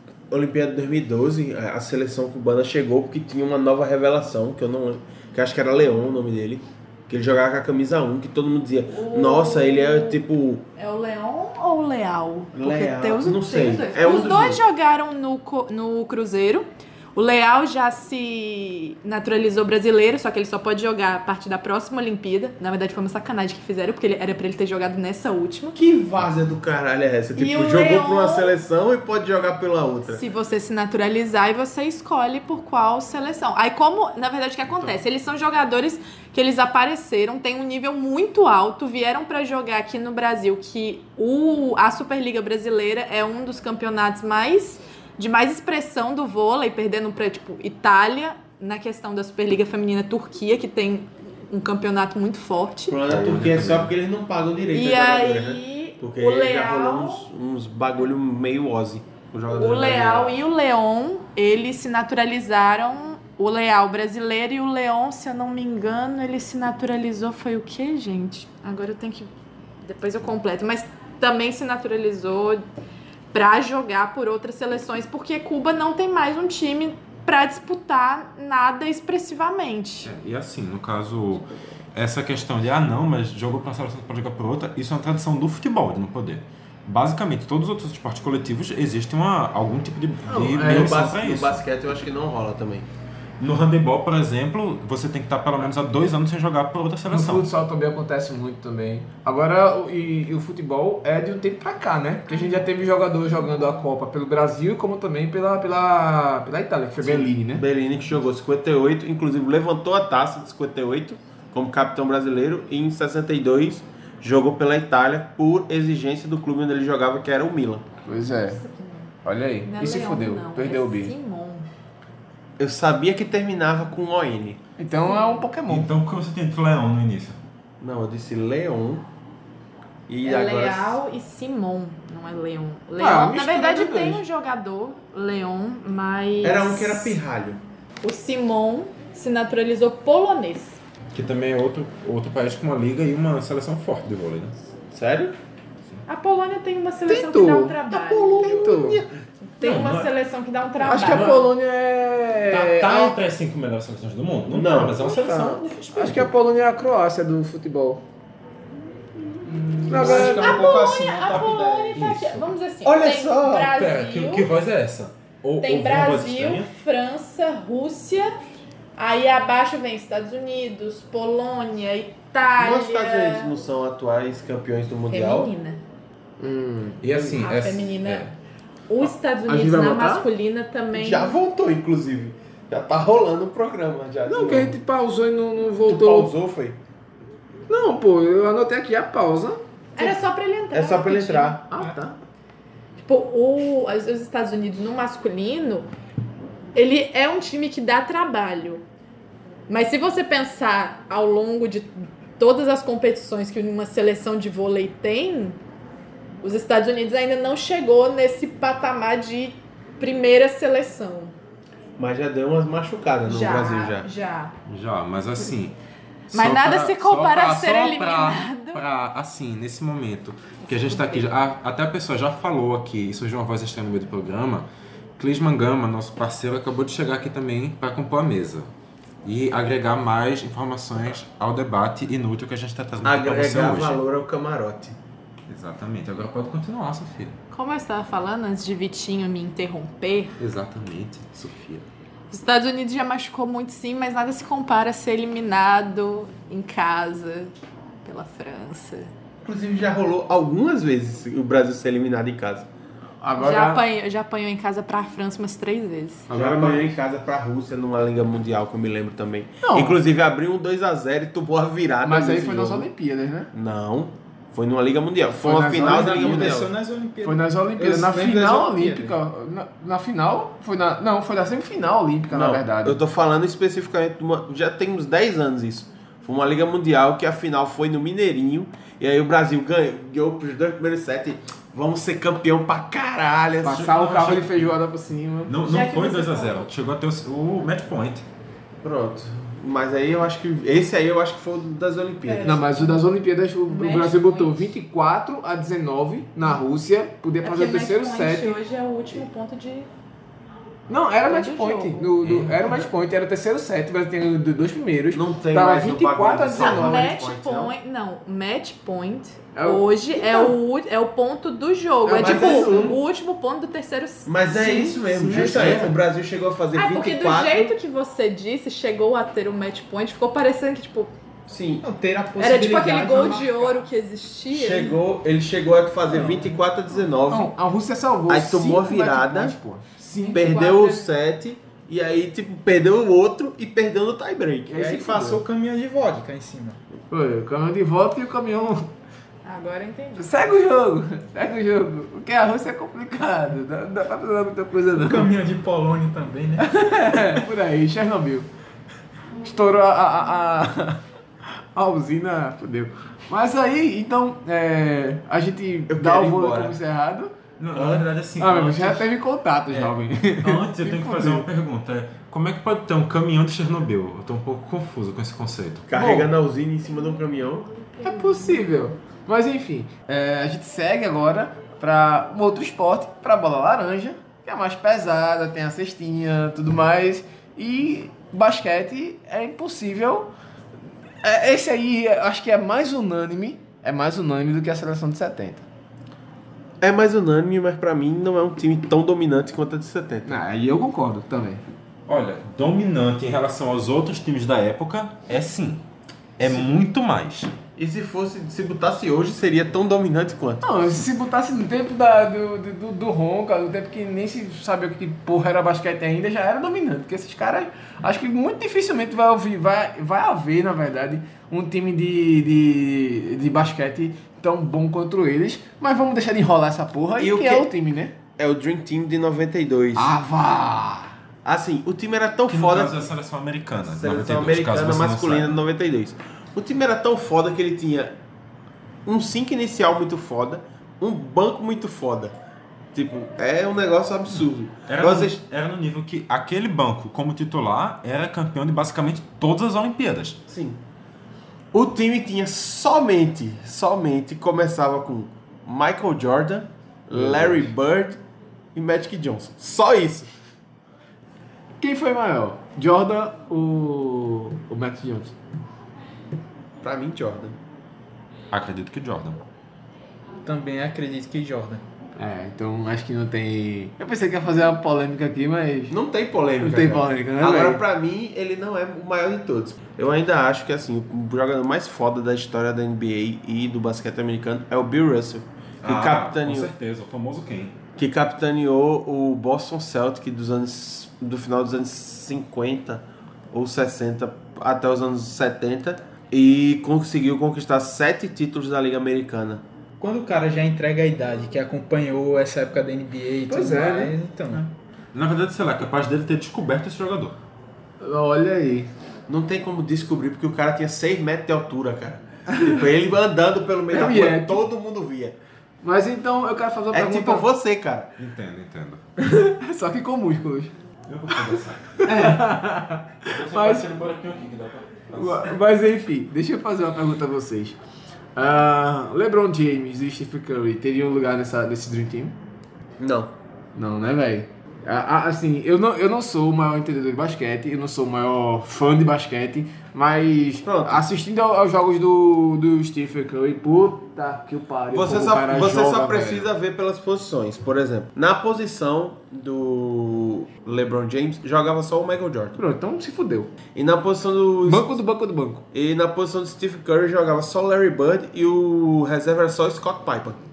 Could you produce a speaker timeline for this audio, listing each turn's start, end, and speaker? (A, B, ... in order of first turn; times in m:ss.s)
0:00.3-0:10.6 A
0:08.9-0:10.2 B
0:10.8-0:25.8 B
0:12.6-0:14.6 A
0:25.8-0:30.2 A
0:27.3-0:28.5 B
0:30.1-0:53.0 B
0:52.9-1:00.3 A
0:53.0-0:54.0 C
0:54.7-0:57.3 B
0:59.5-1:09.3 B
1:09.8-1:12.6 B
1:13.3-1:20.1 B
1:20.0-1:31.6 C
1:30.3-1:31.0 D
1:30.5-1:32.9 A
1:33.4-1:37.5 C
1:37.1-1:47.6 D
1:47.0-1:57.8 A
1:58.1-1:58.6 D
1:58.3-1:59.1 B
1:59.2-2:01.1 D
1:59.6-2:01.7 B
2:02.6-2:04.6 A
2:04.8-2:05.9 D
2:05.7-2:07.4 C
2:07.8-2:09.1 A
2:10.1-2:11.0 A
2:10.2-2:17.2 B
2:13.0-2:14.2 D
2:16.4-2:17.6 A
2:18.0-2:20.8 B
2:21.1-2:24.6 C
2:24.9-2:25.4 A
2:26.1-2:28.8 B
2:27.1-2:27.8 D
2:27.9-2:29.1 A
2:28.4-2:29.0 D
2:29.6-2:31.5 B
2:29.6-2:30.1 C
2:30.8-2:33.2 D
2:31.0-2:31.4 C
2:32.5-2:36.3 C
2:34.5-2:35.6 A
2:35.1-2:38.0 D
2:39.5-2:42.0 E
2:39.9-2:40.6 D
2:40.0-2:44.5 B
2:41.3-2:42.5 C
2:42.8-2:43.7 A
2:43.7-2:46.7 C
2:45.6-2:48.3 B
2:49.0-2:53.5 B
2:52.6-2:55.5 A
2:55.1-2:55.8 B
2:56.4-2:57.4 D
2:57.0-2:58.3 C
2:57.3-2:58.4 B
2:58.9-3:01.4 B
2:59.5-3:00.3 D
3:00.9-3:04.8 A
3:04.3-3:06.3 D
3:05.8-3:06.8 A
3:07.7-3:10.1 D
3:10.0-3:11.6 B
3:10.7-3:11.7 A
3:11.7-3:12.2 D
3:13.0-3:15.9 B
3:16.8-3:18.8 B
3:19.7-3:25.6 B
3:26.4-3:31.4 B
3:32.0-3:34.1 A
3:33.2-3:34.6 B
3:34.7-3:35.8 C
3:36.3-3:44.7 C
3:36.3-3:38.8 B
3:40.7-3:41.3 B
3:45.2-3:48.7 C
3:49.2-3:54.0 C
3:53.0-3:55.0 A
3:55.5-3:57.4 C
3:57.5-4:00.4 B
4:00.4-4:01.9 C
4:02.3-4:07.5 B
4:08.0-4:09.1 B
4:09.4-4:12.7 A
4:13.2-4:13.8 D
4:13.4-4:16.3 B
4:16.3-4:16.9 D
4:16.3-4:22.9 A
4:19.6-4:20.0 D
4:22.0-4:23.5 D
4:23.5-4:26.7 A
4:25.4-4:26.7 D
4:25.6-4:29.2 E
4:27.2-4:33.0 D
4:32.3-4:43.9 A
4:43.6-4:45.6 D
4:43.6-4:44.8 C
4:45.5-4:48.3 C
4:45.6-4:46.7 B
4:48.8-4:52.6 A
4:52.2-4:53.0 B
4:52.4-4:58.6 D
4:53.7-4:54.6 B
4:57.4-4:59.9 B
5:00.9-5:07.1 D
5:01.3-5:02.2 B
5:02.2-5:02.8 C
5:05.1-5:07.7 A
5:06.6-5:14.6 B
5:09.6-5:10.5 D
5:12.0-5:13.0 D
5:12.2-5:13.0 A
5:14.3-5:17.7 A
5:14.5-5:16.0 D
5:14.7-5:15.8 E
5:16.7-5:21.1 B
5:21.5-5:21.9 A
5:21.8-5:23.8 E
5:22.4-5:25.0 B
5:24.5-5:27.5 A
5:26.2-5:26.5 E
5:27.3-5:30.5 D
5:28.3-5:29.6 A
5:30.3-5:31.1 B
5:30.3-5:35.1 A
5:34.7-5:35.4 D
5:34.8-5:36.8 E
5:37.1-5:38.9 D
5:39.4-5:40.3 B
5:40.2-5:45.3 D
5:45.0-5:47.4 E
5:46.6-5:48.5 D
5:49.4-5:51.0 D
5:51.7-5:57.3 D
5:55.9-5:56.8 A
5:57.6-5:59.1 C
5:57.8-5:58.0 A
5:58.4-6:01.5 D
5:59.7-6:05.9 C
6:05.9-6:07.7 A
6:05.9-6:06.3 D
6:08.0-6:20.3 D
6:21.2-6:25.7 D
6:26.8-6:30.4 A
6:30.2-6:31.6 D
6:32.1-6:35.8 C
6:36.4-6:37.5 C
6:37.8-6:40.6 A
6:40.6-6:58.2 D
6:57.2-6:57.7 A
6:58.4-7:00.2 A
7:00.0-7:01.1 D
7:01.4-7:03.1 A
7:02.5-7:05.6 C
7:03.8-7:08.2 A
7:09.1-7:12.4 A
7:12.9-7:15.4 A
7:14.9-7:20.4 C
7:20.5-7:20.8 A
7:21.7-7:28.2 A
7:27.1-7:27.7 C
7:28.8-7:30.3 A
7:31.8-7:35.4 D
7:36.8-7:37.6 A
7:38.5-7:39.4 C
7:40.4-7:41.8 E
7:42.2-7:46.0 D
7:45.9-7:56.7 A
7:46.6-7:47.8 D
7:55.8-7:57.8 C
7:58.0-8:09.6 A
8:10.0-8:14.7 E
8:13.5-8:14.2 D
8:15.1-8:17.4 C
8:18.0-8:18.9 D
8:19.3-8:25.4 A
8:22.5-8:22.8 D
8:23.9-8:24.6 D
8:25.8-8:27.5 D
8:26.9-8:28.1 A
8:28.2-8:29.0 C
8:29.2-8:30.7 D
8:31.1-8:32.6 C
8:32.0-8:33.9 D
8:33.2-8:35.6 C
8:35.1-8:37.8 D
8:38.4-8:42.4 D
8:43.0-8:43.3 A
8:43.8-8:56.5 D
8:50.6-8:51.0 A
8:54.9-9:02.6 A
9:02.6-9:03.5 D
9:03.8-9:04.9 A
9:04.6-9:05.6 D
9:05.7-9:10.4 A